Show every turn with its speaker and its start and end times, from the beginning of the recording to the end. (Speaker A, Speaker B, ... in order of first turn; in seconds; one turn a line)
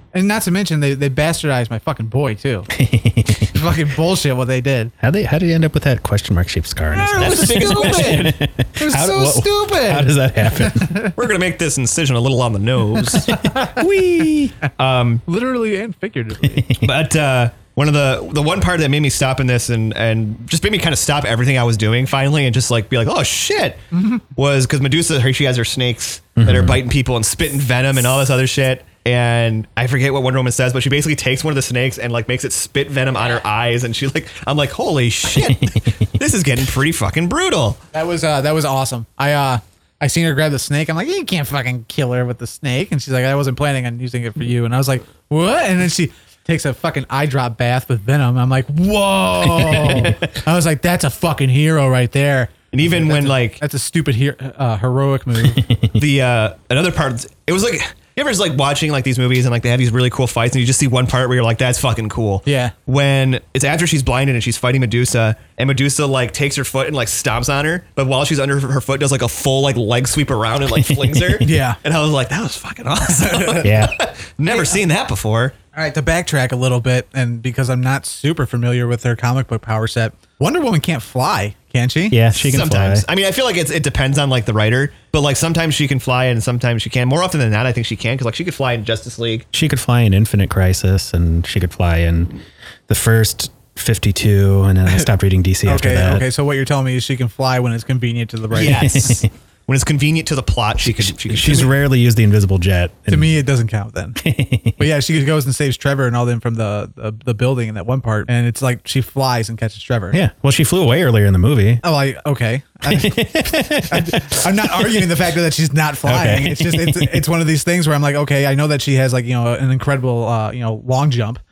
Speaker A: 0.1-2.7
Speaker B: 2.7-3.8
Speaker A: 3.5-4.9
Speaker B: 5.0-11.0
Speaker A: 6.9-8.2
Speaker C: 7.1-8.4
Speaker A: 8.8-11.1
Speaker C: 11.2-13.4
Speaker B: 13.1-14.6
Speaker A: 13.3-13.8
Speaker C: 14.8-15.2
Speaker A: 15.3-16.7
Speaker B: 16.5-16.9
Speaker C: 16.8-23.8
Speaker A: 23.9-24.2
Speaker C: 24.4-37.8
Speaker B: 26.4-26.8
Speaker B: 35.4-35.9
Speaker A: 37.9-55.7
Speaker C: 49.8-50.1
Speaker C: 52.7-53.6
Speaker B: 55.6-56.0
Speaker C: 56.0-75.5
Speaker A: 62.5-62.7
Speaker B: 70.7-71.5
Speaker A: 71.4-71.8
Speaker A: 73.1-73.7
Speaker B: 73.6-74.0
Speaker A: 74.5-74.8
Speaker A: 75.8-82.2
Speaker B: 82.1-83.1
Speaker C: 82.3-89.5
Speaker B: 89.5-96.3
Speaker A: 95.7-99.2
Speaker C: 98.5-101.7
Speaker B: 98.7-99.3
Speaker B: 100.8-103.3
Speaker A: 103.1-104.2
Speaker B: 104.2-104.8
Speaker A: 104.8-110.2
Speaker B: 110.1-111.8
Speaker A: 111.8-121.4
Speaker B: 112.8-115.1
Speaker B: 116.1-117.2